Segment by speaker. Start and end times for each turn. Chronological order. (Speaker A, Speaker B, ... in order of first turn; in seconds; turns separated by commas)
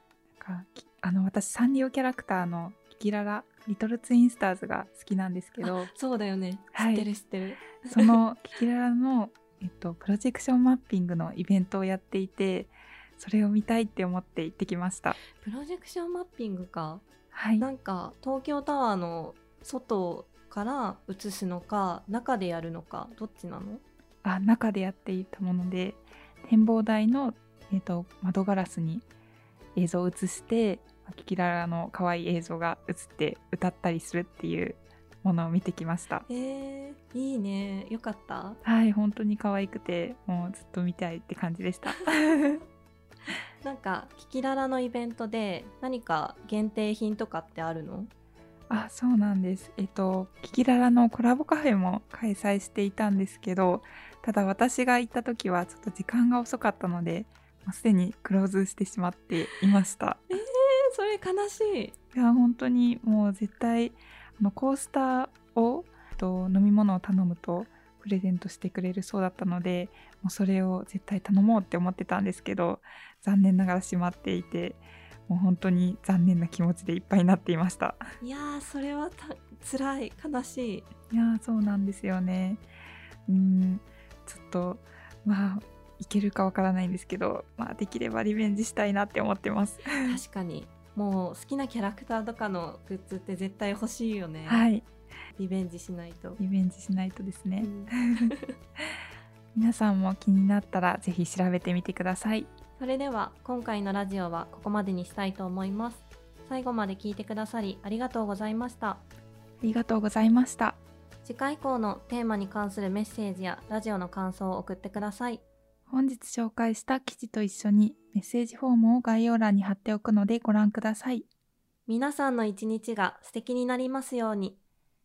Speaker A: 0.4-5.9, Speaker B: 5.6-8.2, Speaker A: 6.7-7.1, Speaker A: 7.8-15.2, Speaker B: 15.3-17.1, Speaker A: 17.3-17.7, Speaker B: 17.6-23.8, Speaker A: 24.2-29.1, Speaker A: 29.8-36.3, Speaker B: 36.3-38.6, Speaker A: 38.6-42.6, Speaker B: 43.6-48.1, Speaker A: 48.7-60.4, Speaker B: 60.3-62.0, Speaker A: 62.1-78.0, Speaker B: 78.2-80.9, Speaker A: 81.1-82.6, Speaker A: 83.3-90.2, Speaker B: 90.0-94.7, Speaker A: 94.5-94.9, Speaker B: 95.3-96.4, Speaker A: 96.4-98.3, Speaker B: 97.6-98.5, Speaker A: 99.5-102.5, Speaker B: 102.8-109.0, Speaker A: 109.6-110.8, Speaker B: 111.2-115.4, Speaker A: 115.9-121.3, Speaker B: 121.9-124.6